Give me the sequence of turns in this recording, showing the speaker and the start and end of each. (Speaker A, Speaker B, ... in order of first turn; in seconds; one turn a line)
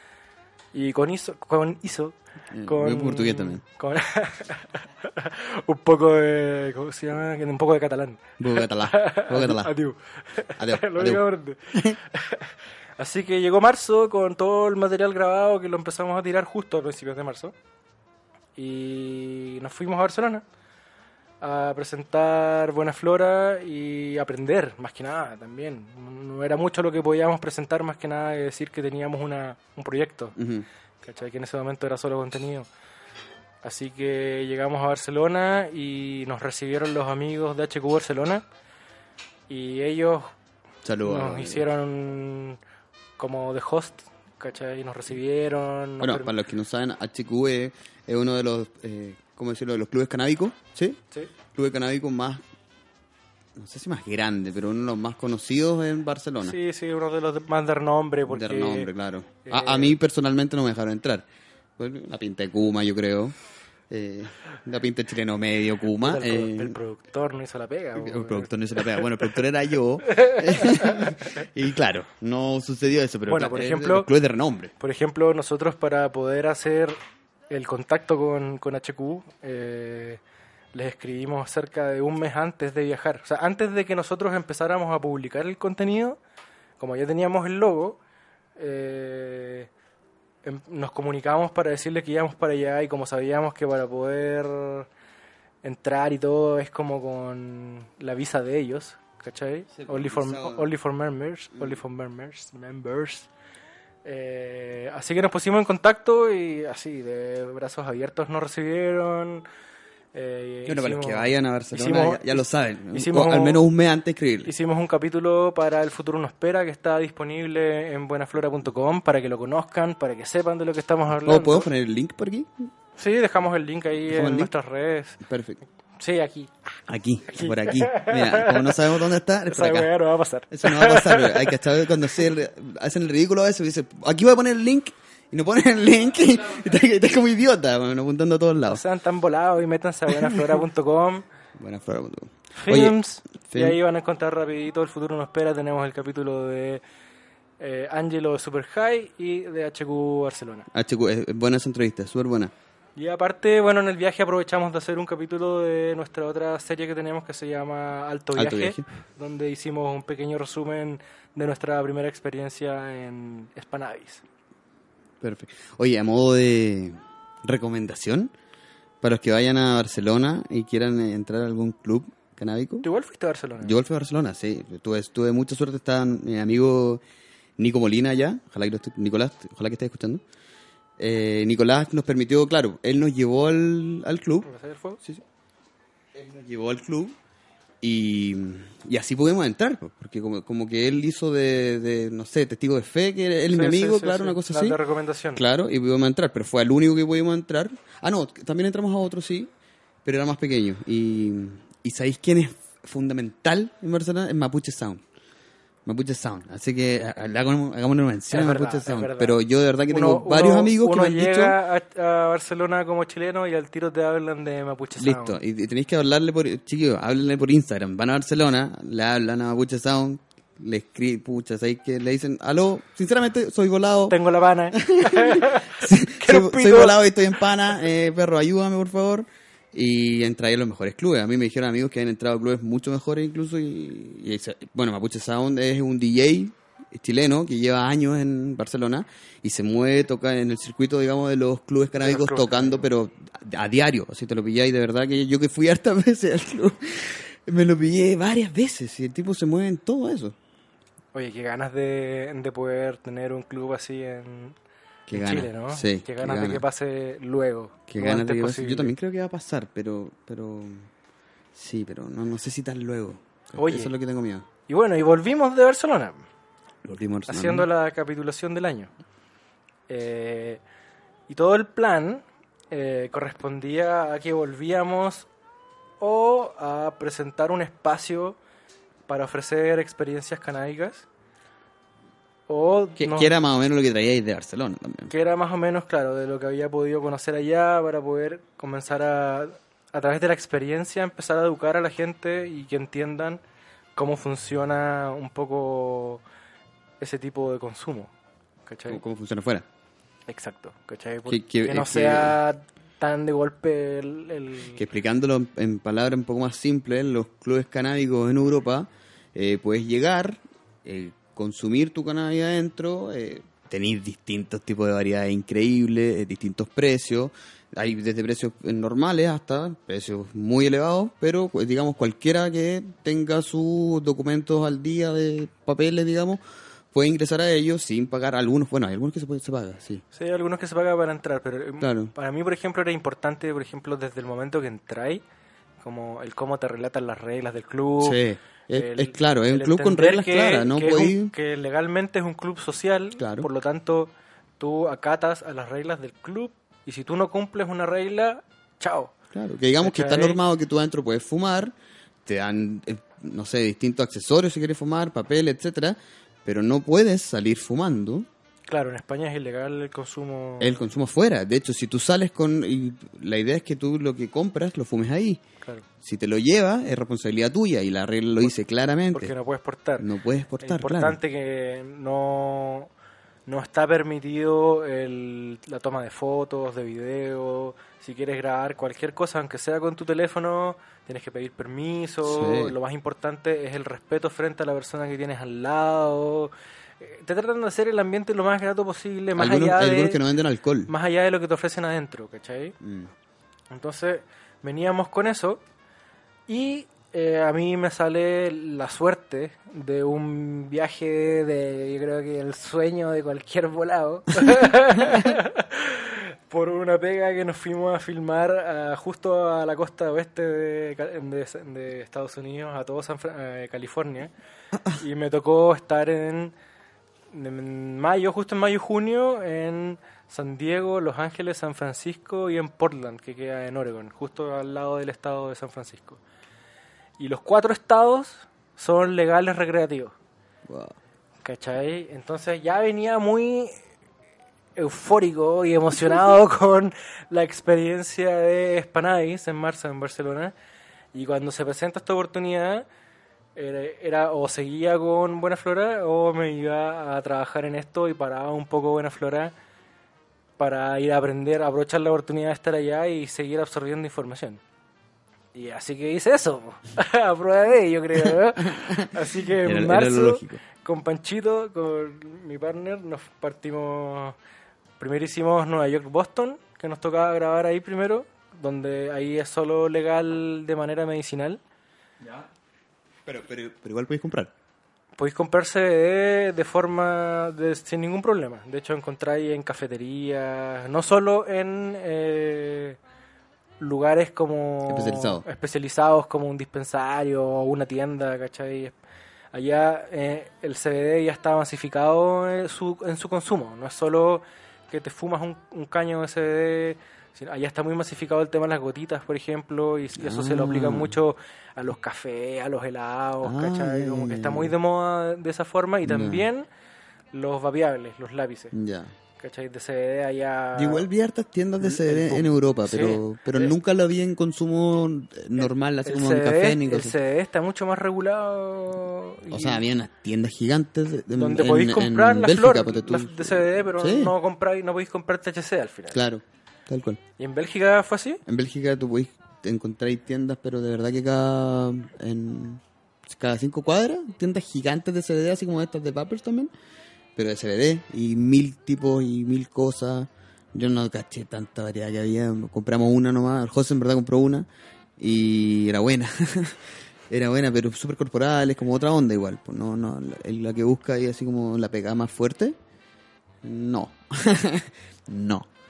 Speaker A: 0.7-17.5
Speaker B: 2.5-3.6
Speaker B: 8.4-9.7
Speaker B: 10.6-12.0
Speaker A: 18.6-20.4
Speaker A: 21.4-30.3
Speaker B: 30.4-30.6
Speaker A: 31.0-32.7
Speaker A: 33.6-38.4
Speaker A: 39.5-40.3
Speaker B: 40.8-41.7
Speaker A: 41.0-42.6
Speaker A: 43.2-46.3
Speaker B: 46.0-51.0
Speaker B: 51.5-52.4
Speaker B: 53.5-56.6
Speaker A: 56.4-58.9
Speaker B: 58.3-61.2
Speaker A: 59.4-60.0
Speaker B: 61.8-63.4
Speaker B: 63.9-66.7
Speaker A: 66.0-69.0
Speaker B: 68.0-74.7
Speaker A: 70.2-71.1
Speaker A: 73.3-74.1
Speaker A: 74.8-77.0
Speaker A: 77.5-80.2
Speaker A: 80.7-86.2
Speaker A: 86.8-88.0
Speaker A: 88.6-89.7
Speaker A: 90.4-94.9
Speaker A: 95.6-103.3
Speaker B: 99.7-100.7
Speaker A: 104.0-109.4
Speaker A: 110.1-113.6
Speaker B: 110.7-114.5
Speaker A: 114.4-121.7
Speaker B: 121.2-122.7
Speaker A: 123.0-125.2
Speaker B: 124.1-124.5
Speaker B: 125.2-125.6
Speaker A: 126.0-126.7
Speaker B: 126.9-129.9
Speaker A: 127.3-128.8
Speaker A: 129.5-131.6
Speaker B: 130.5-138.8
Speaker A: 138.7-141.2
Speaker B: 141.6-143.8
Speaker A: 142.6-146.8
Speaker A: 147.6-150.7
Speaker B: 150.7-152.5
Speaker A: 152.9-164.2
Speaker B: 158.3-158.8
Speaker B: 165.2-168.3
Speaker B: 169.0-172.8
Speaker A: 172.8-173.7
Speaker B: 173.6-177.0
Speaker B: 177.6-180.2
Speaker B: 181.0-184.5
Speaker A: 184.4-185.0
Speaker B: 186.1-187.2
Speaker B: 187.8-194.8
Speaker A: 193.5-195.4
Speaker B: 195.3-199.5
Speaker B: 200.0-205.0
Speaker B: 205.8-211.6
Speaker A: 208.3-209.4
Speaker A: 209.9-215.4
Speaker B: 214.9-224.2
Speaker A: 224.1-227.0
Speaker B: 224.7-250.3
Speaker A: 242.0-242.9
Speaker A: 251.1-254.6
Speaker B: 255.1-256.6
Speaker A: 255.1-258.9
Speaker B: 257.9-260.9
Speaker B: 261.5-264.4
Speaker A: 263.6-263.9
Speaker A: 264.7-266.3
Speaker B: 266.8-267.7
Speaker A: 267.3-268.9
Speaker A: 269.9-270.6
Speaker A: 271.3-275.3
Speaker A: 276.0-278.4
Speaker A: 279.1-281.1
Speaker A: 282.5-283.3
Speaker B: 283.0-285.1
Speaker A: 285.1-293.4
Speaker A: 293.9-296.2
Speaker A: 297.0-298.1
Speaker A: 298.7-299.0
Speaker B: 298.9-299.6
Speaker A: 300.3-304.8
Speaker B: 301.2-302.4
Speaker B: 304.7-330.0
Speaker A: 330.1-335.2
Speaker B: 331.8-332.1
Speaker A: 335.8-338.2
Speaker B: 338.0-341.3
Speaker A: 338.7-349.1
Speaker B: 343.2-343.5
Speaker B: 349.3-358.3
Speaker A: 349.8-350.4
Speaker A: 358.7-360.8
Speaker B: 360.6-365.4
Speaker B: 366.0-369.3
Speaker A: 369.1-370.1
Speaker B: 370.0-371.2
Speaker A: 370.6-372.9
Speaker A: 373.5-390.2
Speaker B: 382.2-382.7
Speaker B: 389.4-390.9
Speaker A: 390.9-392.8
Speaker B: 392.8-393.1
Speaker A: 393.7-395.6
Speaker A: 396.5-414.3
Speaker A: 414.9-416.5
Speaker A: 417.3-426.2
Speaker A: 427.2-430.1
Speaker B: 430.6-431.0
Speaker A: 431.4-433.8
Speaker A: 434.8-440.5
Speaker A: 441.1-442.9
Speaker A: 443.6-449.5
Speaker A: 450.6-454.6
Speaker A: 455.5-464.4
Speaker B: 458.6-459.1
Speaker B: 459.6-460.6
Speaker A: 465.0-471.6
Speaker B: 473.2-474.5
Speaker A: 475.2-483.0
Speaker A: 483.8-488.9
Speaker B: 484.9-485.4
Speaker A: 489.5-506.6
Speaker B: 500.2-501.1
Speaker B: 503.4-504.7
Speaker B: 506.0-506.5
Speaker A: 507.3-508.7
Speaker B: 508.7-509.1
Speaker A: 509.4-511.1
Speaker B: 510.7-517.2
Speaker A: 511.8-513.7
Speaker A: 516.0-519.8
Speaker B: 519.5-524.3
Speaker A: 521.3-526.2
Speaker B: 526.1-527.2
Speaker A: 527.4-528.4
Speaker B: 528.5-536.7
Speaker B: 537.4-544.7
Speaker B: 545.2-552.8
Speaker B: 553.6-555.7